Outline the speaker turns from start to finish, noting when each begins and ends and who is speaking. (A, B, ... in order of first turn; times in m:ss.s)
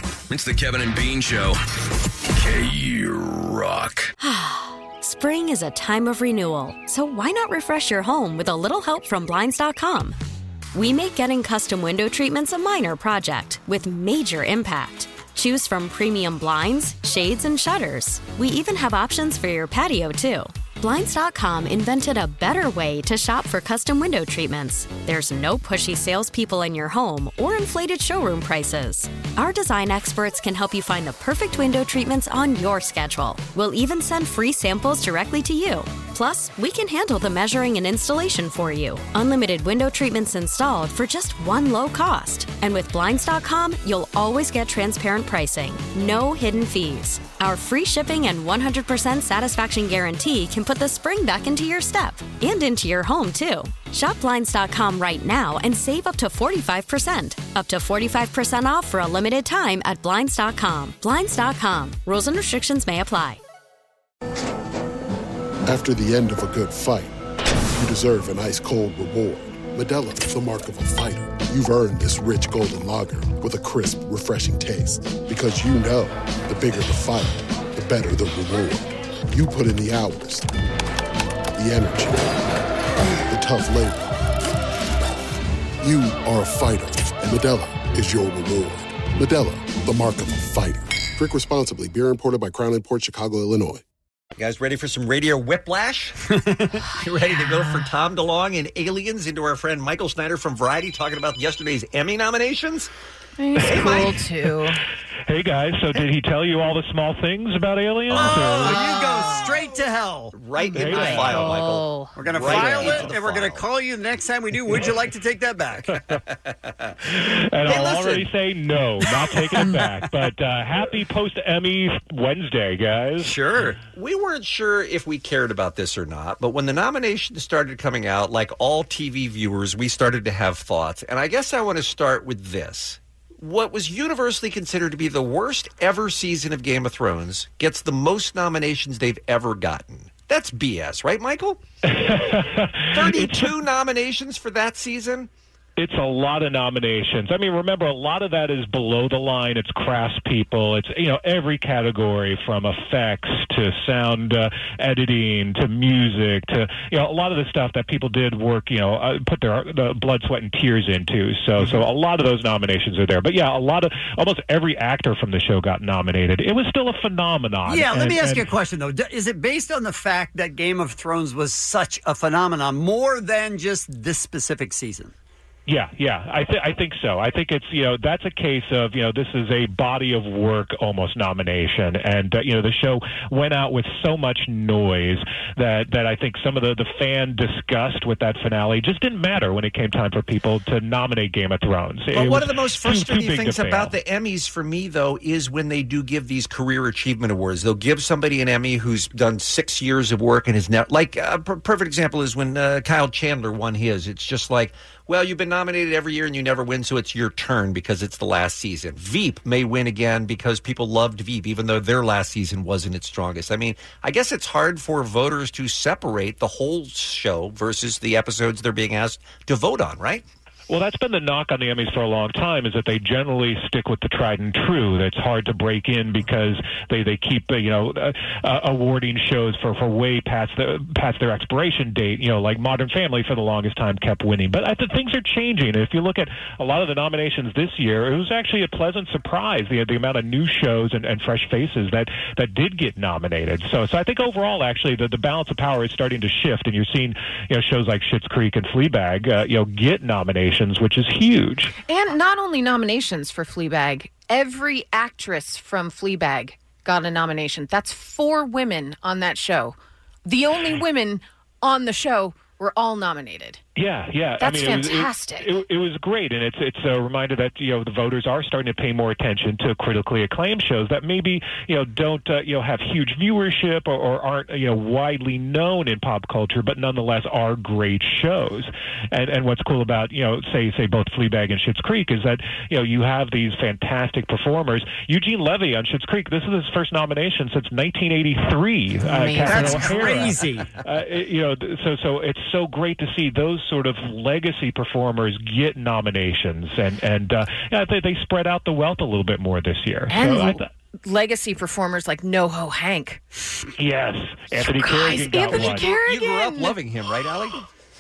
0:00.3-0:01.6 A
0:02.3-0:04.1 A
0:04.2-0:10.2 B
0:10.7-1:03.4 B
1:05.7-1:07.2 C
1:07.8-1:20.5 C
1:21.6-1:22.5 C
1:23.3-1:24.1 C
1:25.8-1:33.8 C
1:34.4-1:36.2 D
1:36.3-1:36.8 E
1:36.9-1:42.9 D
1:43.4-1:44.8 F
1:43.6-1:44.2 G
1:45.3-1:49.0 G
1:48.1-1:50.4 E
1:48.1-1:49.2 D
1:50.3-1:53.7 D
1:50.6-1:52.2 F
1:50.7-1:51.5 G
1:50.9-1:51.2 E
1:52.2-1:56.0 E
1:52.5-1:53.0 G
1:56.2-1:56.9 D
1:57.1-2:03.4 G
1:57.7-1:58.2 D
2:03.2-2:03.8 E
2:04.0-2:21.6 D
2:21.9-2:23.6 G
2:22.9-2:25.3 D
2:25.8-2:48.5 G
2:47.7-2:55.1 E
2:55.7-3:14.0 G
3:12.1-3:40.2 D
3:40.7-4:11.8 G
4:11.8-4:23.6 F
4:23.8-5:00.7 G
4:24.4-4:25.6 F
4:49.1-4:50.1 F
4:49.4-4:50.7 E
5:00.1-5:03.2 F
5:03.8-5:05.9 G
5:04.6-5:06.8 F
5:05.7-5:07.6 D